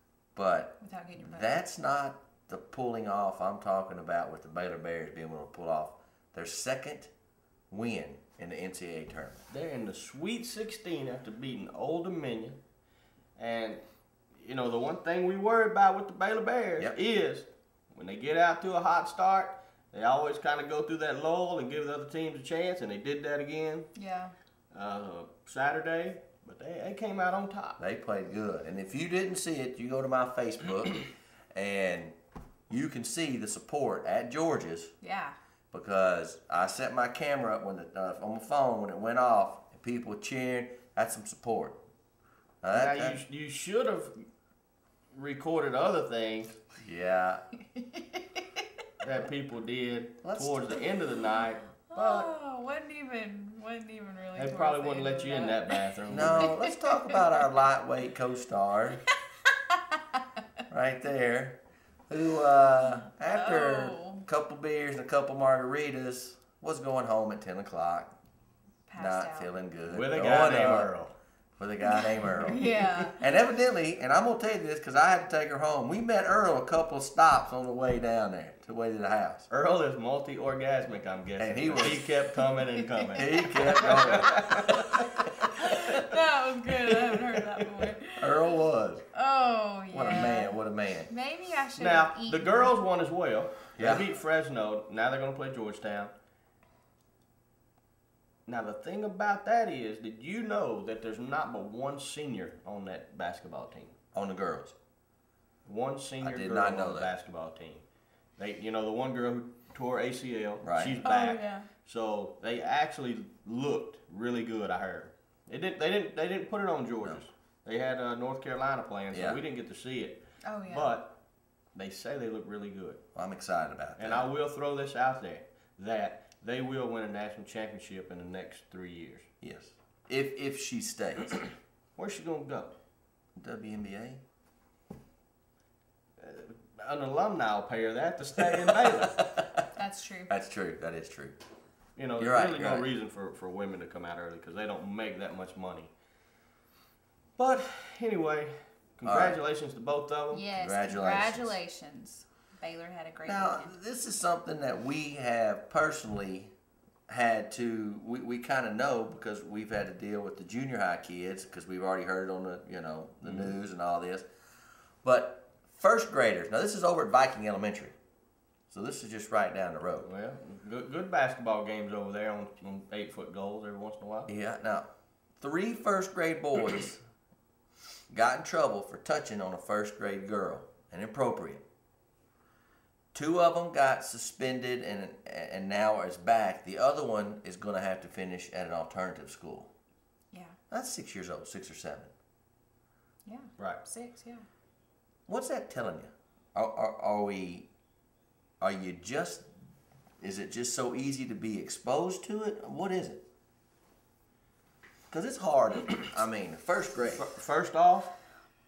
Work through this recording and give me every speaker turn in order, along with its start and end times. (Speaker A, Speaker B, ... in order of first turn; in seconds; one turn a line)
Speaker A: 0.3-7.1
Speaker B: 0.8-1.6
Speaker A: 7.7-9.4
Speaker C: 9.5-12.6
Speaker C: 13.4-13.8
Speaker C: 14.3-23.9
Speaker B: 23.9-24.3
Speaker C: 24.7-27.8
Speaker A: 27.8-32.1
Speaker A: 32.7-34.9
Speaker B: 35.0-35.3
Speaker A: 35.7-41.8
Speaker A: 42.6-43.2
Speaker C: 42.7-44.1
Speaker C: 45.1-46.6
Speaker A: 46.8-47.4
Speaker B: 47.6-48.6
Speaker C: 49.0-52.3
Speaker A: 50.2-50.8
Speaker B: 51.9-55.8
Speaker C: 54.4-56.6
Speaker A: 56.1-59.0
Speaker B: 56.4-57.4
Speaker B: 59.7-60.2
Speaker A: 60.7-68.1
Speaker B: 63.2-64.2
Speaker B: 68.9-69.5
Speaker A: 69.0-70.9
Speaker C: 69.8-71.1
Speaker A: 71.6-79.5
Speaker B: 71.8-73.2
Speaker C: 72.5-73.1
Speaker C: 79.5-85.1
Speaker A: 81.4-82.1
Speaker B: 82.4-83.6
Speaker A: 83.1-85.4
Speaker B: 85.1-88.5
Speaker C: 85.6-86.1
Speaker C: 86.8-88.0
Speaker A: 88.2-89.0
Speaker B: 89.1-92.8
Speaker A: 89.9-91.1
Speaker C: 91.8-96.1
Speaker A: 93.8-94.2
Speaker C: 98.5-103.9
Speaker A: 104.1-104.7
Speaker C: 105.6-107.8
Speaker A: 106.2-107.1
Speaker C: 108.4-121.2
Speaker A: 110.6-111.0
Speaker B: 111.0-111.7
Speaker A: 119.1-119.4
Speaker B: 120.4-120.9
Speaker C: 121.7-123.0
Speaker A: 123.1-124.3
Speaker C: 124.0-129.3
Speaker A: 129.4-131.4
Speaker C: 131.9-132.7
Speaker A: 133.4-134.2
Speaker C: 136.2-139.2
Speaker A: 138.8-139.6
Speaker B: 139.7-140.3
Speaker A: 140.3-141.4
Speaker C: 141.9-145.9
Speaker A: 142.2-142.9
Speaker C: 147.4-150.5
Speaker A: 149.0-149.4
Speaker B: 150.3-153.7
Speaker A: 150.5-151.5
Speaker A: 153.2-156.5
Speaker A: 157.1-164.2
Speaker C: 163.2-163.5
Speaker A: 165.0-167.9
Speaker A: 168.7-170.1
Speaker C: 170.0-174.3
Speaker A: 174.3-174.9
Speaker A: 175.4-177.0
Speaker A: 178.1-181.6
Speaker A: 183.1-189.7
Speaker B: 190.3-190.6
Speaker A: 190.7-192.1
Speaker B: 193.2-194.4
Speaker A: 195.3-197.7
Speaker A: 198.6-199.4
Speaker A: 200.2-203.2
Speaker A: 205.1-207.2
Speaker C: 206.9-208.1